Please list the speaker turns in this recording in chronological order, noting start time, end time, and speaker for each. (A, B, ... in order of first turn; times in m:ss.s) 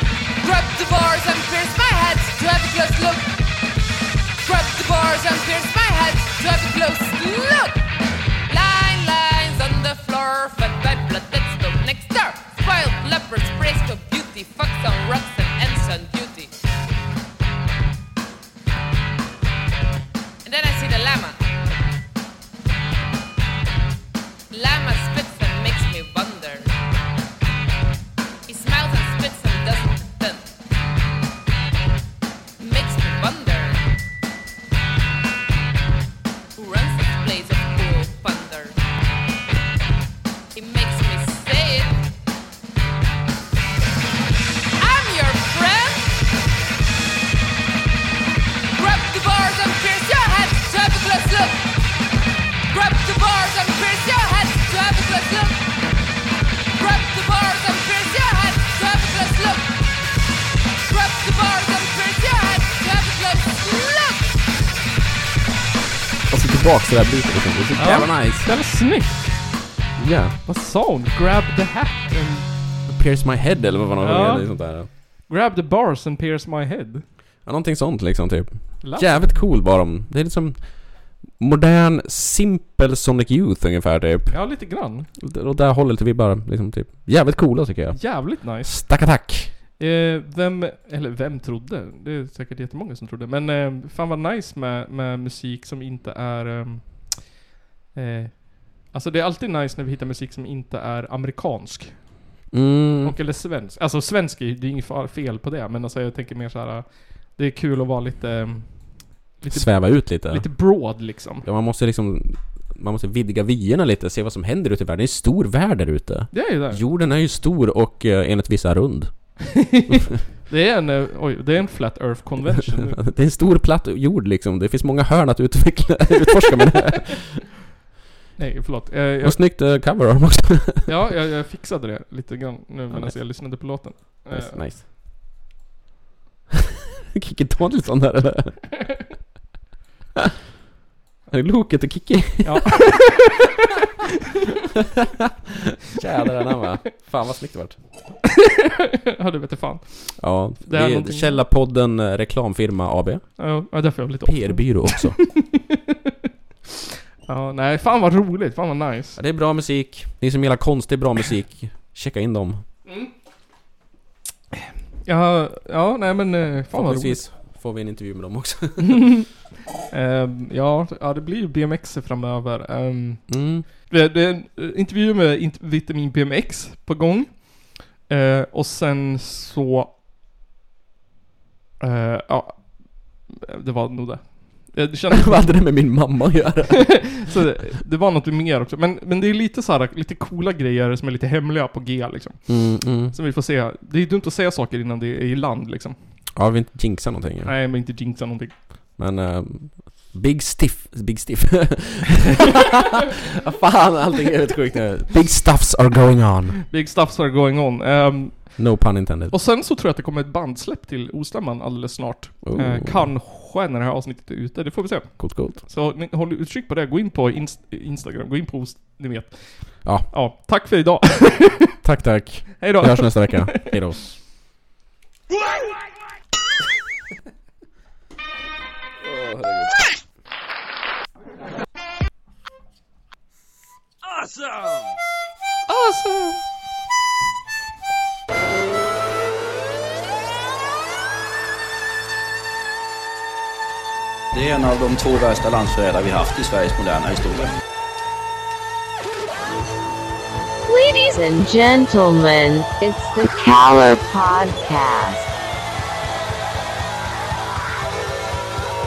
0:00.4-0:03.3 A
0:04.4-0:07.8 A
0:08.5-0:16.5 A
0:20.4-0:21.4 A
0:24.5-0:26.7 A
0:28.4-0:30.4 A
0:32.6-0:33.9 A
0:36.6-0:38.8 A
0:40.5-0:42.0 A
0:44.8-0:46.2 A
0:48.7-0:51.7 A
0:52.7-0:55.6 A
0:56.7-0:59.8 A
1:00.8-1:04.4 A
1:06.3-1:08.5 B
1:07.8-1:09.3 C
1:10.0-1:10.3 B
1:10.4-1:12.5 C
1:12.9-1:14.9 B
1:14.0-1:17.0 C
1:17.4-1:24.4 B
1:18.8-1:19.4 C
1:24.3-1:25.1 C
1:25.2-1:29.5 B
1:27.9-1:29.2 C
1:29.8-1:37.4 C
1:37.9-1:42.1 C
1:42.5-1:43.2 B
1:43.0-1:51.4 C
1:49.5-2:00.2 B
1:56.3-1:56.8 C
1:59.5-2:03.0 C
2:02.4-2:07.4 B
2:08.4-2:09.4 C
2:09.2-2:10.9 B
2:10.8-2:14.7 C
2:12.9-2:14.9 B
2:17.1-2:18.8 B
2:21.3-2:22.8 B
2:22.4-2:23.3 C
2:25.8-2:27.8 B
2:28.4-2:31.4 C
2:30.2-2:33.4 B
2:33.4-2:35.8 C
2:34.2-2:35.2 B
2:37.2-2:39.2 C
2:39.2-2:42.6 B
2:42.8-2:43.1 C
2:45.0-2:47.2 C
2:46.7-2:49.0 B
2:48.8-2:49.3 C
2:49.9-2:59.9 C
2:53.3-2:53.6 B
3:01.8-3:06.0 C
3:05.1-3:07.2 B
3:06.9-3:16.0 C
3:12.5-3:13.2 B
3:16.3-3:17.5 B
3:17.4-3:18.6 C
3:19.0-3:26.6 B
3:26.7-3:28.7 C
3:28.6-3:29.3 B
3:29.3-3:41.8 C
3:32.4-3:33.1 B
3:35.2-3:35.6 B
3:41.8-3:44.1 B
3:42.6-3:43.8 C
3:49.0-3:49.9 B
3:55.7-3:56.4 C
4:04.3-4:07.6 D
4:10.7-4:15.3 E